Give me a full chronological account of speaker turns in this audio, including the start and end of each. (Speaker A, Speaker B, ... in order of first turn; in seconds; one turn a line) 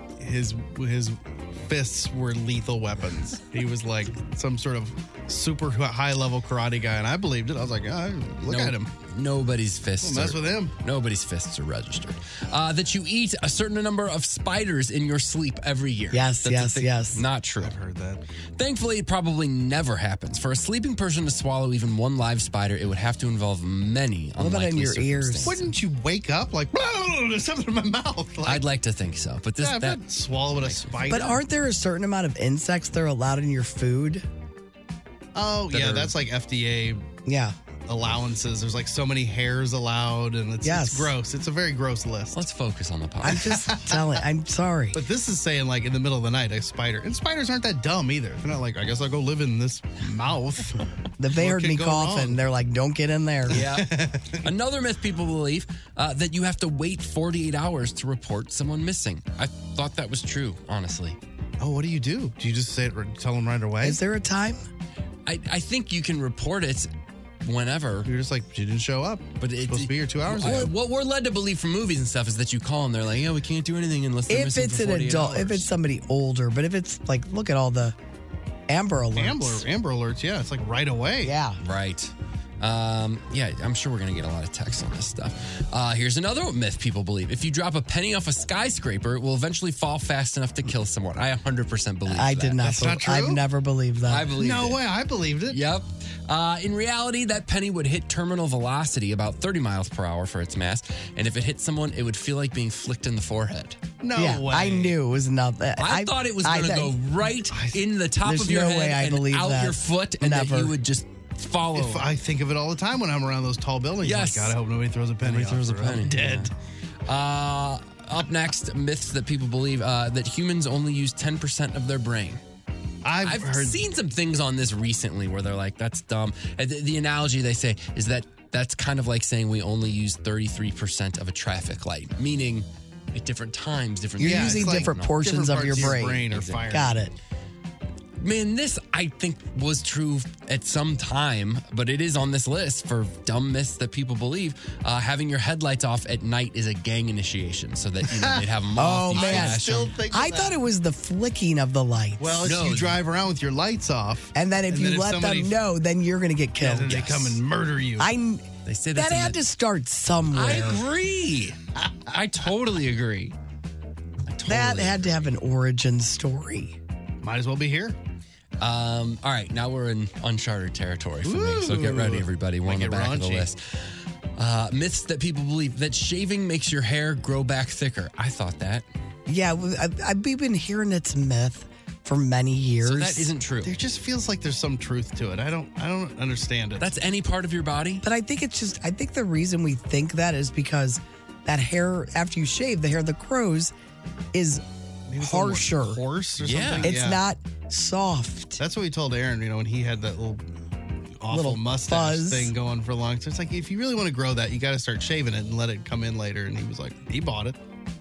Speaker A: 0.2-8.9
Speaker B: 8.5-17.8
Speaker A: 10.0-10.7
Speaker C: 16.1-17.2
Speaker A: 17.6-18.2
Speaker B: 18.6-25.6
Speaker C: 24.4-25.6
Speaker A: 25.4-28.6
Speaker B: 28.4-31.3
Speaker A: 29.6-31.4
Speaker C: 31.1-34.2
Speaker A: 35.4-37.1
Speaker B: 35.7-36.1
Speaker C: 37.3-37.5
Speaker A: 37.9-42.5
Speaker C: 40.6-41.1
Speaker B: 42.3-43.5
Speaker C: 43.2-45.0
Speaker A: 43.3-44.0
Speaker A: 44.9-50.8
Speaker C: 51.2-53.6
Speaker A: 51.3-52.4
Speaker B: 53.5-61.2
Speaker A: 53.5-54.5
Speaker A: 61.6-64.0
Speaker C: 63.8-64.6
Speaker B: 65.3-66.9
Speaker B: 67.4-68.1
Speaker A: 68.1-70.7
Speaker B: 69.4-75.7
Speaker C: 74.3-78.0
Speaker C: 78.7-79.7
Speaker A: 79.2-81.3
Speaker C: 81.2-81.6
Speaker B: 81.6-92.7
Speaker C: 92.1-94.3
Speaker A: 92.6-93.4
Speaker B: 94.1-94.8
Speaker A: 94.3-95.6
Speaker B: 95.5-103.8
Speaker A: 104.0-105.0
Speaker C: 104.1-106.9
Speaker B: 105.8-112.1
Speaker A: 107.5-107.8
Speaker C: 108.2-110.7
Speaker A: 111.7-116.5
Speaker B: 114.0-114.6
Speaker B: 115.2-116.5
Speaker B: 117.1-122.4
Speaker A: 123.0-123.8
Speaker B: 123.2-136.6
Speaker C: 134.2-137.2
Speaker A: 134.2-137.0
Speaker B: 138.2-150.0
Speaker C: 148.8-152.4
Speaker A: 149.1-150.6
Speaker A: 152.2-155.6
Speaker B: 152.4-153.0
Speaker C: 154.3-157.2
Speaker A: 156.6-158.1
Speaker B: 156.9-157.3
Speaker C: 158.0-160.8
Speaker B: 158.7-159.4
Speaker B: 160.3-161.6
Speaker A: 160.5-160.8
Speaker A: 161.8-162.1
Speaker B: 162.1-163.3
Speaker B: 164.3-165.2
Speaker C: 164.5-166.8
Speaker A: 167.2-168.0
Speaker B: 168.6-178.9
Speaker A: 171.2-173.5
Speaker C: 179.3-183.3
Speaker B: 182.8-183.7
Speaker A: 183.6-186.9
Speaker B: 186.8-188.0
Speaker C: 188.0-193.7
Speaker C: 194.3-194.6
Speaker A: 195.1-197.2
Speaker C: 195.2-196.0
Speaker B: 196.4-197.0
Speaker C: 196.8-198.6
Speaker A: 198.6-200.4
Speaker A: 201.2-207.6
Speaker C: 201.3-202.5